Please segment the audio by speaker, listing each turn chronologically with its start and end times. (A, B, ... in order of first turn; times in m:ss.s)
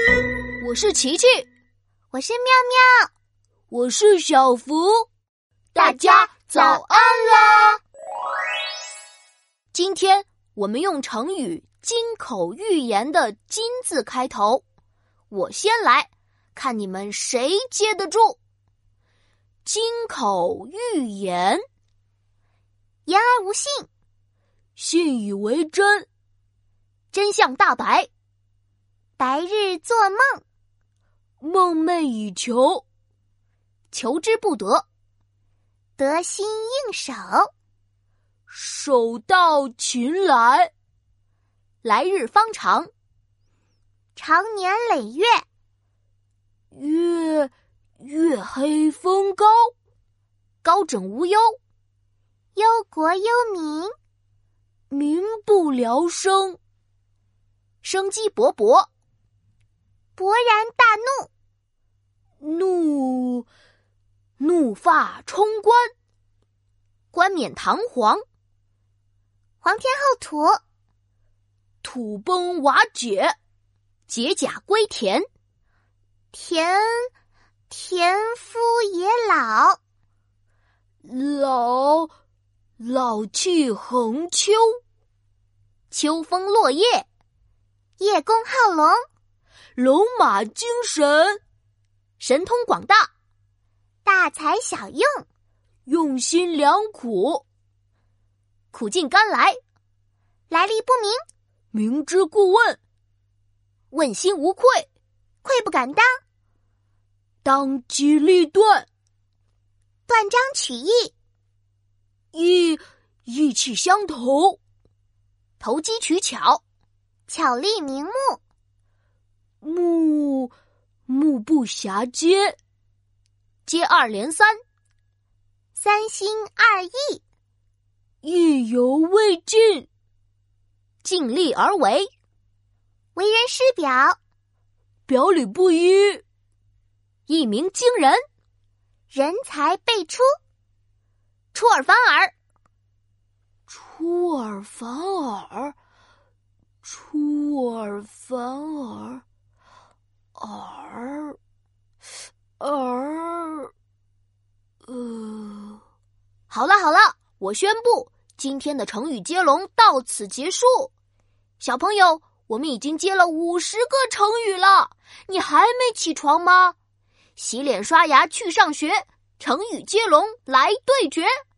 0:00.6-0:01.5 A
0:02.1-0:03.1 B
0:03.7-0:05.1 A
0:05.7-0:07.8 A
0:09.7-0:14.6 A
0:15.3-0:18.4 A
0:19.6-0:21.6 A
0:23.0-0:23.9 B
0:24.8-0:26.0 A
0:27.1-0:28.1 A
0:29.2-0:30.4 B
0:31.4-0:32.8 A
0:33.9-0:34.8 A
0:36.0-0:37.5 B
0:38.5-0:40.7 A
0:41.8-0:42.9 A
0:44.2-0:45.4 B
0:46.7-0:49.7 A
0:50.6-0:51.6 A
0:52.5-0:53.9 B
0:54.9-0:56.6 A
0:57.8-0:58.9 A
1:00.2-1:01.3 B
1:02.4-1:03.5 A
1:04.4-1:05.9 A
1:07.1-1:08.2 A
1:09.6-1:10.6 B
1:11.8-1:13.4 A
1:14.1-1:15.2 A
1:16.3-1:17.1 B
1:17.7-1:19.8 B
1:21.0-1:22.1 A
1:22.8-1:24.7 A
1:25.9-1:27.0 A
1:28.0-1:29.0 B
1:29.8-1:31.4 A
1:32.2-1:33.1 A
1:34.0-1:35.2 B
1:35.9-1:37.4 A
1:38.7-1:39.6 A
1:40.5-1:41.2 B
1:41.7-1:42.8 A
1:43.9-1:44.9 A
1:45.4-1:46.2 B
1:47.4-1:48.8 A
1:50.1-1:51.1 B
1:52.3-1:54.6 A
1:55.6-1:56.6 A
1:57.3-1:58.4 B
1:59.6-2:00.5 A
2:01.1-2:02.6 A
2:03.6-2:04.6 A
2:05.8-2:07.2 B
2:08.2-2:09.9 A
2:11.0-2:12.1 A
2:13.2-2:14.2 B
2:15.1-2:16.2 A
2:17.3-2:18.2 A
2:19.1-2:20.3 B
2:21.5-2:22.3 A
2:23.7-2:25.7 A
2:26.8-2:29.2 A
2:30.4-2:31.4 A
2:32.6-2:33.7 A
2:34.8-2:35.8 A
2:36.5-2:40.9 A
2:41.6-2:46.8 A
2:47.4-2:51.3 A